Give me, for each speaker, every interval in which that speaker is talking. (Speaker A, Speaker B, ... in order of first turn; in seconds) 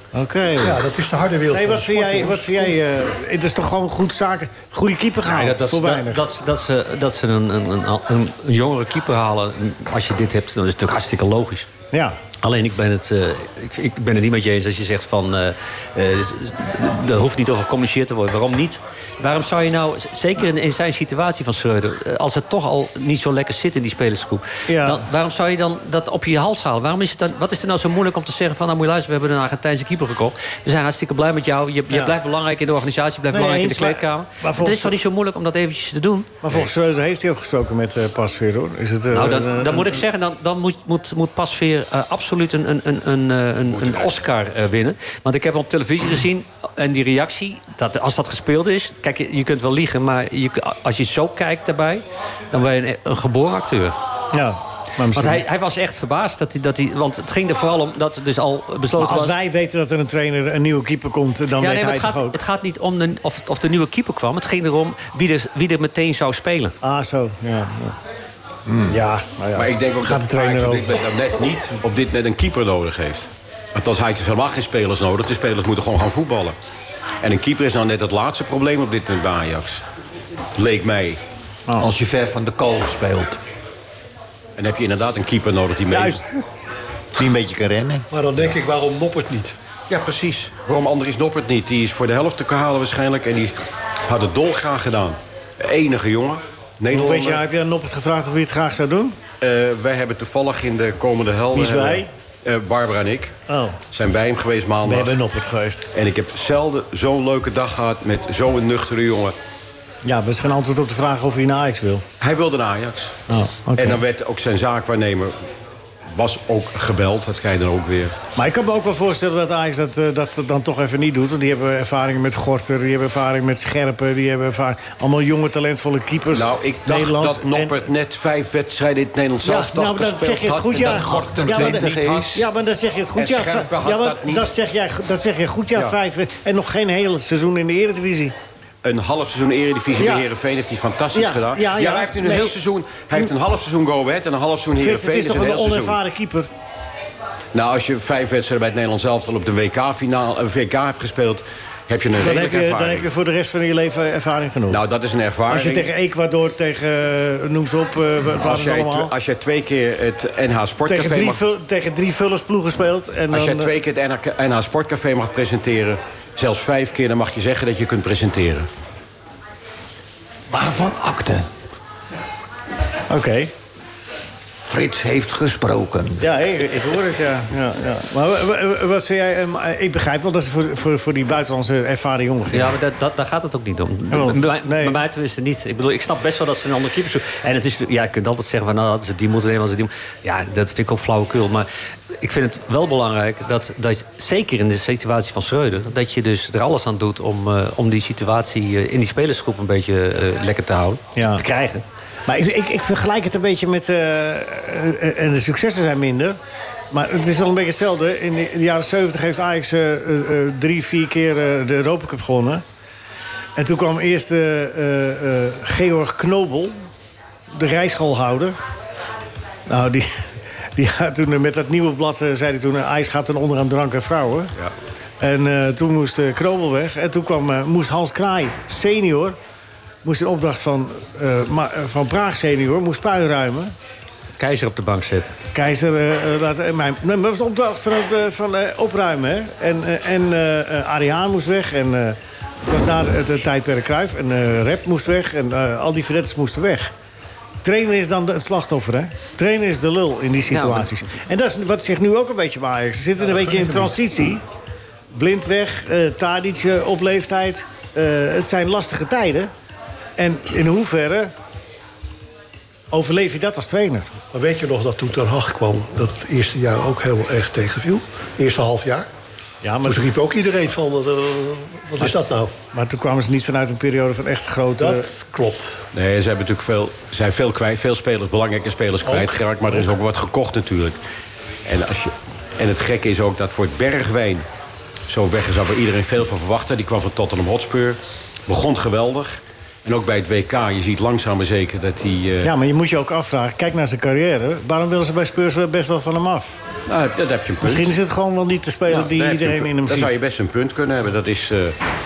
Speaker A: 0.1-0.8, 1.5-6.3, 11.9-12.2, 24.7-25.1, 33.3-35.0, 36.4-40.0, 54.3-55.4, 59.0-62.4, 66.8-68.0, 68.9-71.0, 85.9-86.4, 96.9-99.2, 101.5-102.1, 103.5-103.8, 104.8-105.9, 110.0-112.1, 113.3-114.0, 118.4-127.8, 129.4-138.3, 140.0-140.3, 141.1-142.6, 144.8-146.5, 152.2-154.8, 155.5-159.1, 160.9-163.7, 173.1-173.5, 176.2-182.8, 184.1-185.0, 201.2-201.4, 202.3-206.4, 206.9-212.6, 213.6-216.8, 217.5-218.6, 219.7-224.5, 225.2-229.4, 230.0-233.7, 235.5-246.9, 247.6-254.4, 255.1-259.5, 260.2-261.3, 262.9-264.1, 269.6-270.1, 272.7-275.1, 292.4-296.6, 297.6-300.2
Speaker B: 0.6-2.8, 88.1-89.6, 264.3-269.1, 269.9-272.5, 274.8-275.9, 279.1-279.8
Speaker C: 5.3-11.7, 12.4-36.4, 39.1-54.0, 55.1-59.4, 61.6-66.8, 182.5-201.8, 234.4-235.3, 250.5-250.9
Speaker D: 43.7-44.2, 69.5-76.6, 77.2-79.8, 80.6-81.2, 84.6-86.2, 89.9-93.5, 94.1-97.4, 99.4-103.3, 103.9-105.2, 105.9-109.4, 112.2-113.2, 113.8-115.3, 116.1-118.1, 126.3-132.3, 133.2-134.5, 138.8-146.0, 147.5-153.1, 154.7-155.9, 158.3-161.4, 163.3-168.7, 275.9-281.0, 281.7-284.5, 285.1-292.5, 296.9-297.9, 298.9-301.8
Speaker E: 81.8-83.4, 87.2-88.1, 130.8-132.4, 170.5-171.5, 174.7-176.2